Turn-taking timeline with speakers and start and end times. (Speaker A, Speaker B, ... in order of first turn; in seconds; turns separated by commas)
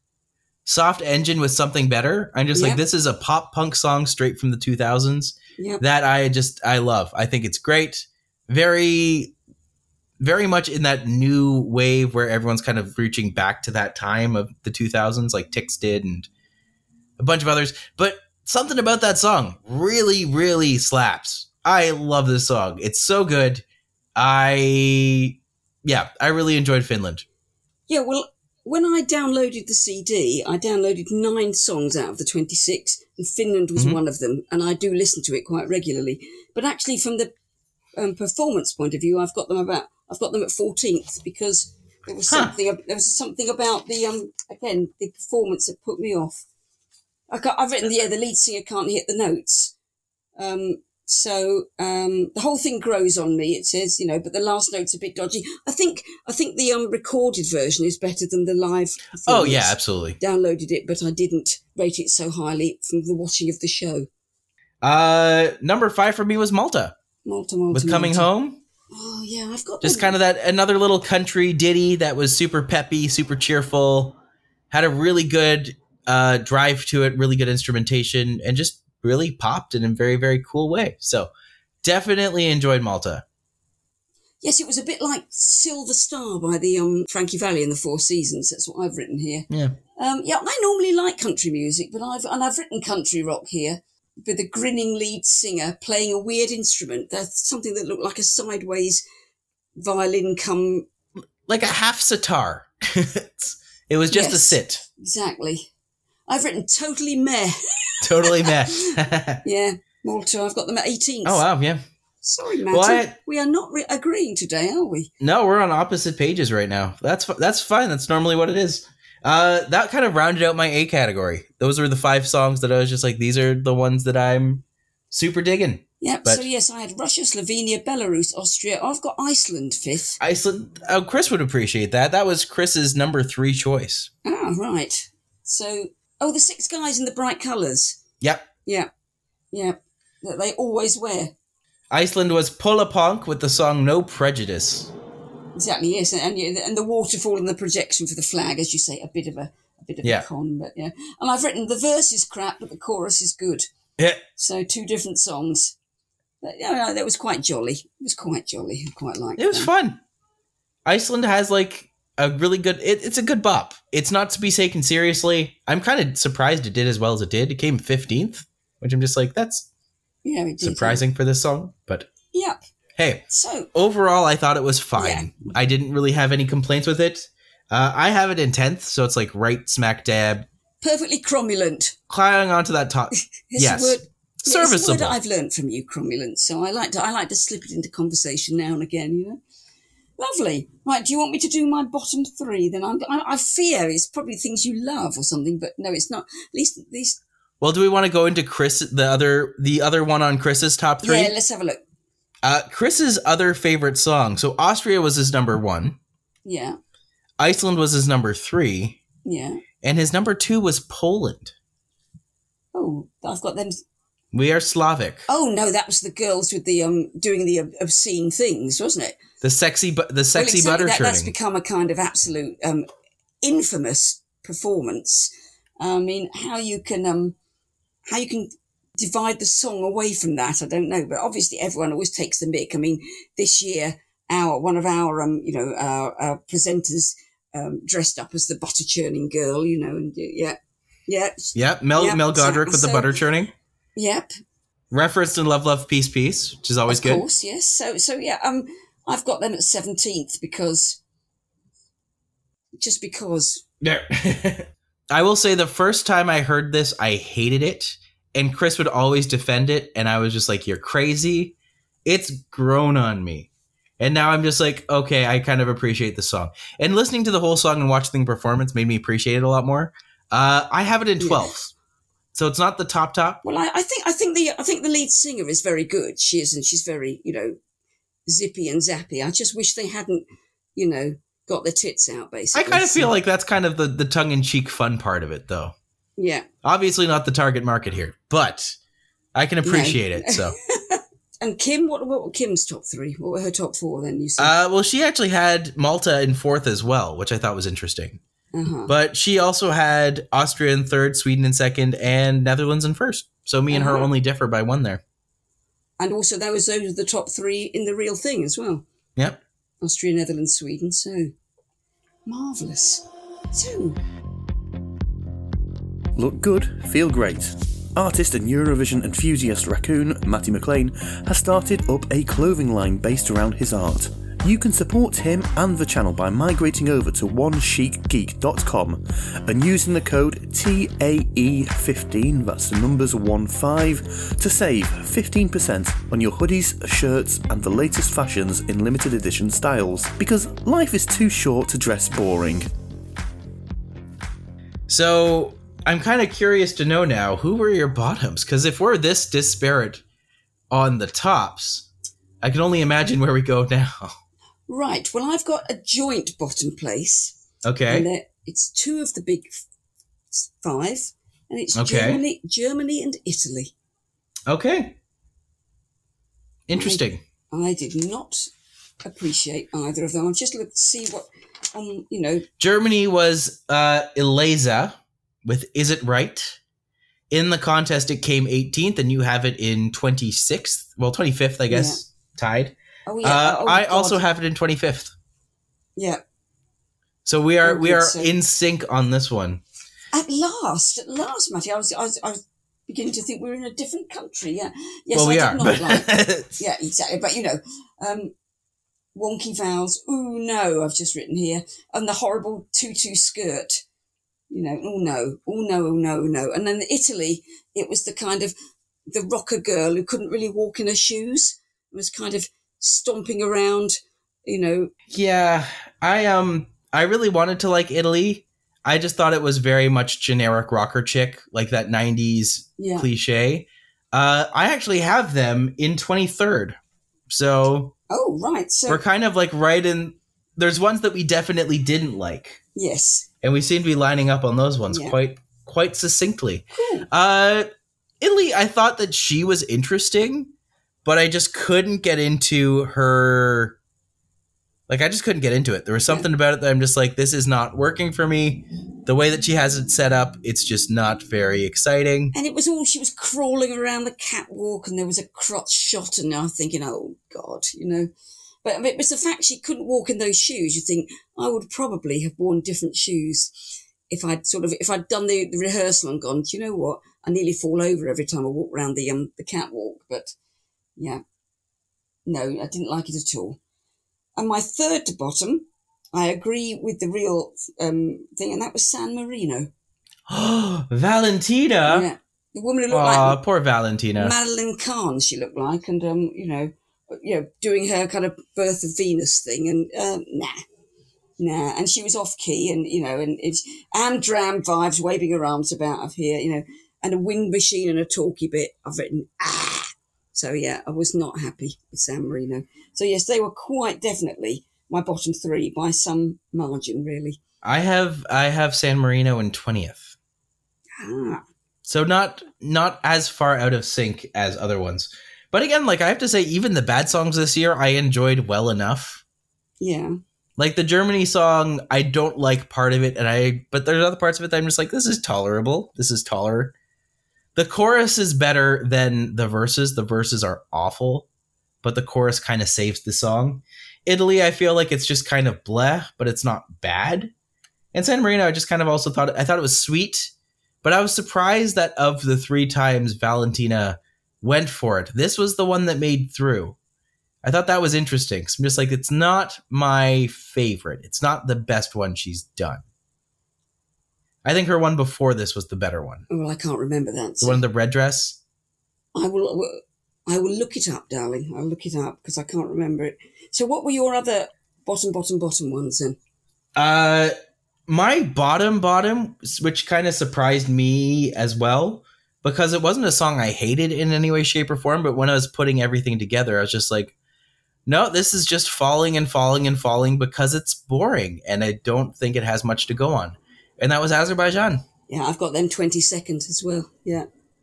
Speaker A: 0.6-9.3, Speaker B: 2.5-2.8, Speaker B: 5.6-5.8, Speaker A: 10.2-16.3, Speaker A: 17.2-23.6, Speaker A: 24.1-27.2, Speaker B: 27.9-37.3, Speaker B: 38.0-46.4, Speaker A: 42.3-42.5, Speaker B: 47.3-49.7, Speaker B: 50.4-64.1, Speaker A: 59.2-60.2, Speaker A: 64.8-66.9, Speaker B: 67.2-68.3, Speaker A: 67.7-68.6, Speaker B: 68.9-70.1, Speaker A: 69.8-74.2, Speaker A: 74.7-81.3, Speaker A: 81.8-83.2, Speaker B: 84.4-99.0, Speaker A: 89.5-89.8, Speaker B: 99.8-100.8, Speaker A: 101.5-104.8, Speaker B: 104.1-105.7, Speaker B: 106.3-111.4, Speaker A: 108.0-109.4, Speaker A: 111.2-111.8, Speaker B: 112.2-115.1, Speaker A: 112.7-113.1, Speaker A: 115.2-126.4, Speaker B: 126.0-130.2, Speaker A: 130.2-134.1, Speaker B: 134.2-138.0, Speaker A: 138.2-138.5, Speaker B: 139.5-141.3, Speaker A: 141.9-144.9, Speaker B: 145.5-153.7, Speaker B: 154.3-155.8, Speaker B: 156.4-159.7, Speaker A: 159.4-160.0, Speaker A: 160.8-169.7, Speaker B: 170.2-171.0, Speaker A: 170.6-172.1, Speaker B: 172.3-172.6, Speaker A: 173.0-180.5, Speaker B: 173.3-173.7, Speaker B: 174.9-175.3, Speaker B: 180.8-181.9, Speaker A: 182.1-185.2, Speaker B: 183.1-189.4, Speaker B: 190.2-197.2, Speaker A: 197.6-201.3, Speaker B: 201.0-201.8, Speaker A: 202.4-206.0, Speaker B: 206.4-206.8, Speaker A: 207.4-209.0, Speaker B: 209.2-209.6, Speaker A: 209.8-211.5, Speaker B: 212.7-213.8, Speaker A: 214.3-215.2, Speaker B: 215.3-219.2, Speaker A: 219.4-221.3, Speaker B: 220.3-222.8, Speaker B: 223.4-227.3, Speaker B: 228.1-243.2, Speaker A: 241.5-243.5, Speaker B: 243.9-244.3, Speaker A: 244.9-247.2, Speaker B: 246.9-251.0, Speaker B: 252.8-253.6, Speaker A: 253.8-263.5, Speaker A: 264.0-271.7, Speaker B: 271.2-271.5, Speaker A: 272.3-273.4, Speaker B: 273.4-277.6, Speaker B: 278.3-283.1, Speaker A: 282.5-285.7, Speaker B: 286.2-286.5, Speaker A: 286.6-288.8, Speaker A: 289.3-290.5, Speaker B: 289.6-294.5, Speaker A: 294.4-298.2, Speaker B: 298.5-298.9, Speaker A: 298.9-305.0, Speaker B: 303.7-304.1, Speaker B: 306.0-308.8, Speaker B: 309.8-311.3, Speaker B: 312.2-314.0, Speaker C: 316.1-342.7, Speaker A: 344.9-350.0, Speaker A: 350.7-351.9, Speaker A: 352.4-354.1, Speaker B: 354.7-357.4, Speaker A: 357.6-358.1, Speaker B: 357.9-359.6, Speaker B: 360.3-363.7, Speaker A: 361.7-362.2, Speaker A: 364.5-364.9, Speaker A: 366.7-367.2, Speaker B: 366.7-368.5, Speaker B: 369.0-372.5, Speaker A: 372.6-376.6, Speaker A: 377.3-385.1, Speaker B: 381.7-382.0, Speaker B: 383.1-384.2, Speaker B: 385.9-386.2, Speaker A: 387.2-389.6, Speaker B: 387.6-388.3, Speaker B: 390.1-398.3, Speaker A: 395.1-396.6, Speaker B: 399.1-403.8, Speaker B: 404.5-408.5, Speaker B: 409.1-414.9, Speaker A: 415.1-426.8, Speaker B: 422.8-423.1, Speaker A: 427.3-427.9, Speaker B: 428.1-429.0, Speaker A: 428.9-432.6, Speaker B: 432.8-433.3, Speaker A: 433.4-437.7, Speaker B: 434.9-435.1, Speaker B: 436.7-437.1, Speaker A: 438.2-440.5, Speaker A: 441.0-443.8, Speaker A: 444.9-452.3, Speaker B: 452.3-458.1, Speaker B: 458.6-463.5, Speaker B: 464.1-470.3, Speaker B: 471.0-471.2, Speaker B: 472.2-473.6, Speaker B: 474.4-479.7, Speaker A: 480.3-482.1, Speaker B: 481.9-483.4, Speaker A: 482.9-484.3, Speaker B: 484.2-490.6, Speaker B: 491.4-507.4, Speaker A: 507.6-510.1, Speaker B: 511.0-511.4, Speaker A: 511.8-519.2, Speaker B: 519.8-520.2, Speaker A: 520.6-526.7, Speaker A: 527.5-531.2, Speaker A: 531.8-537.3, Speaker A: 537.9-540.3, Speaker A: 540.8-546.8, Speaker A: 547.4-552.8, Speaker A: 554.4-556.2, Speaker B: 556.3-557.6, Speaker A: 557.4-558.4, Speaker B: 559.1-566.2, Speaker A: 566.7-567.3, Speaker A: 567.9-577.1, Speaker A: 577.9-584.8, Speaker B: 585.1-587.3